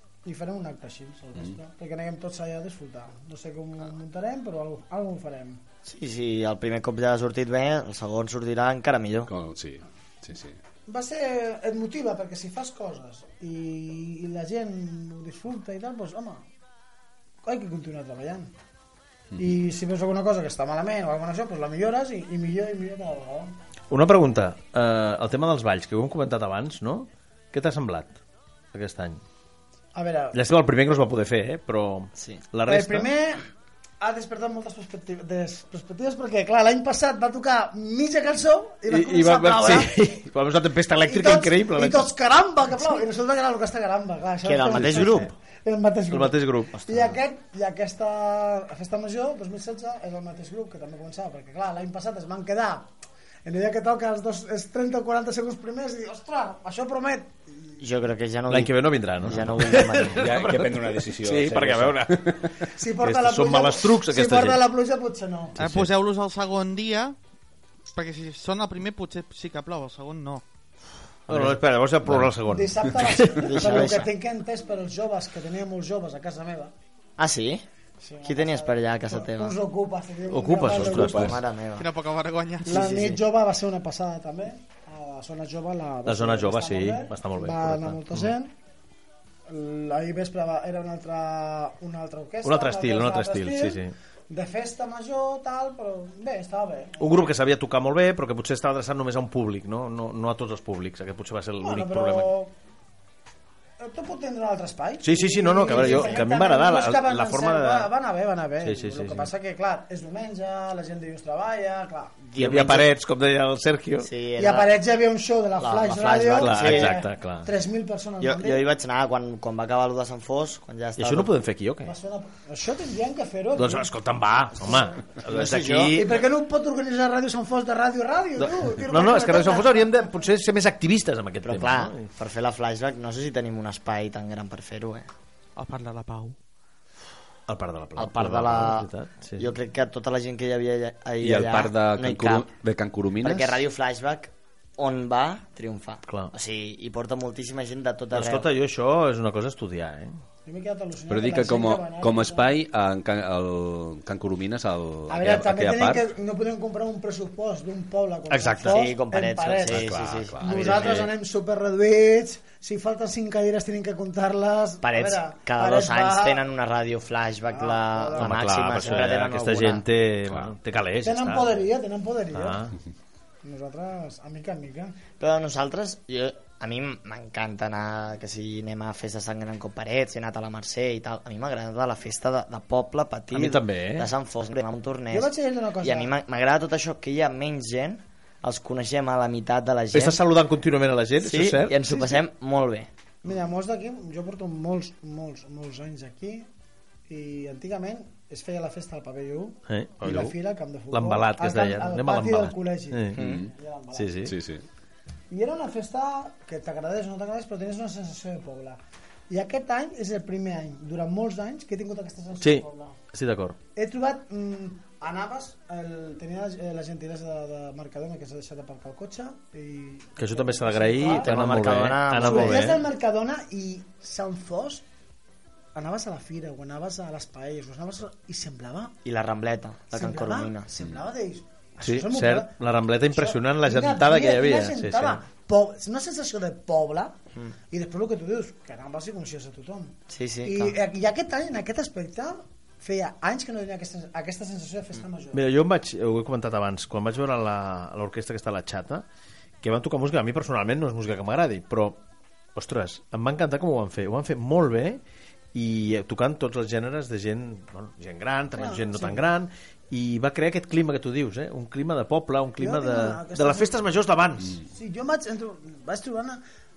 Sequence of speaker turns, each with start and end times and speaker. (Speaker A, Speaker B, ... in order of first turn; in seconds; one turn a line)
Speaker A: 0.2-5.6
Speaker B: 5.8-9.3
Speaker C: 9.3-10.6
Speaker A: 10.9-16.5
Speaker A: 17.4-18.5
Speaker A: 19.4-23.5
Speaker D: 23.9-28.2
Speaker D: 28.7-29.2
Speaker A: 29.9-30.4
Speaker D: 30.3-33.1
Speaker B: 32.2-32.4
Speaker A: 32.7-33.5
Speaker A: 34.0-40.1
Speaker D: 38.9-42.1
Speaker A: 41.1-52.9
Speaker B: 44.4-45.3
Speaker D: 44.7-45.3
Speaker D: 46.1-46.8
Speaker B: 46.7-47.2
Speaker A: 53.5-57.8
Speaker B: 57.8-60.3
Speaker D: 58.5-62.3
Speaker C: 60.1-62.6
Speaker A: 62.8-65.6
Speaker D: 63.0-64.6
Speaker D: 65.6-65.9
Speaker E: 65.6-67.2
Speaker E: 67.9-70.4
Speaker D: 71.3-73.6
Speaker A: 72.5-76.7
Speaker B: 73.4-74.1
Speaker B: 77.2-77.7
Speaker A: 78.0-81.3
Speaker B: 78.2-79.6
Speaker D: 80.3-81.4
Speaker C: 80.8-81.1
Speaker B: 81.0-81.9
Speaker E: 81.8-82.8
Speaker B: 82.6-83.2
Speaker A: 82.7-88.5
Speaker D: 86.0-88.3
Speaker A: 89.5-97.3
Speaker D: 92.4-93.9
Speaker D: 97.0-102.3
Speaker A: 101.6-102.5
Speaker A: 103.8-112.3
Speaker D: 105.0-107.9
Speaker B: 105.8-106.2
Speaker D: 108.6-109.3
Speaker B: 112.3-112.9
Speaker D: 112.4-114.1
Speaker B: 114.0-114.8
Speaker A: 114.4-118.6
Speaker B: 115.6-117.0
Speaker D: 116.3-117.5
Speaker B: 118.2-121.3
Speaker D: 121.0-121.9
Speaker A: 121.9-123.9
Speaker D: 123.6-126.2
Speaker A: 124.6-124.9
Speaker B: 125.3-126.0
Speaker A: 126.0-130.2
Speaker D: 128.4-132.1
Speaker B: 131.4-135.1
Speaker E: 135.6-136.3
Speaker D: 137.5-139.5
Speaker B: 138.0-142.5
Speaker C: 141.2-143.6
Speaker B: 143.2-148.5
Speaker D: 146.1-146.3
Speaker D: 148.1-150.2
Speaker A: 150.5-152.5
Speaker C: 151.1-156.1
Speaker A: 155.1-166.4
Speaker D: 158.3-158.9
Speaker B: 158.6-161.1
Speaker C: 159.7-161.1
Speaker B: 164.8-169.8
Speaker A: 167.5-169.1
Speaker D: 168.2-171.6
Speaker A: 171.0-172.6
Speaker D: 172.3-172.8
Speaker A: 173.4-175.0
Speaker B: 175.2-190.2
Speaker D: 183.3-184.1
Speaker A: 185.1-186.1
Speaker D: 189.9-191.8
Speaker B: 191.2-192.9
Speaker A: 191.9-192.2
Speaker A: 193.2-196.5
Speaker A: 197.1-204.2
Speaker D: 199.7-200.4
Speaker D: 200.9-203.3
Speaker C: 203.2-203.5
Speaker D: 203.9-204.4
Speaker C: 204.3-204.6
Speaker A: 205.3-208.8
Speaker A: 209.3-213.0
Speaker D: 212.4-213.6
Speaker A: 213.8-221.6
Speaker D: 220.2-222.8
Speaker B: 221.0-222.7
Speaker A: 222.2-224.8
Speaker A: 225.8-229.0
Speaker B: 229.1-230.7
Speaker A: 229.9-232.5
Speaker D: 231.8-235.2
Speaker A: 233.1-237.2
Speaker A: 237.7-245.4
Speaker B: 240.1-240.8
Speaker D: 245.3-249.1
Speaker D: 249.6-252.0
Speaker D: 252.6-255.0
Speaker D: 255.5-264.6
Speaker A: 258.6-259.2
Speaker A: 262.6-263.8
Speaker A: 264.7-266.4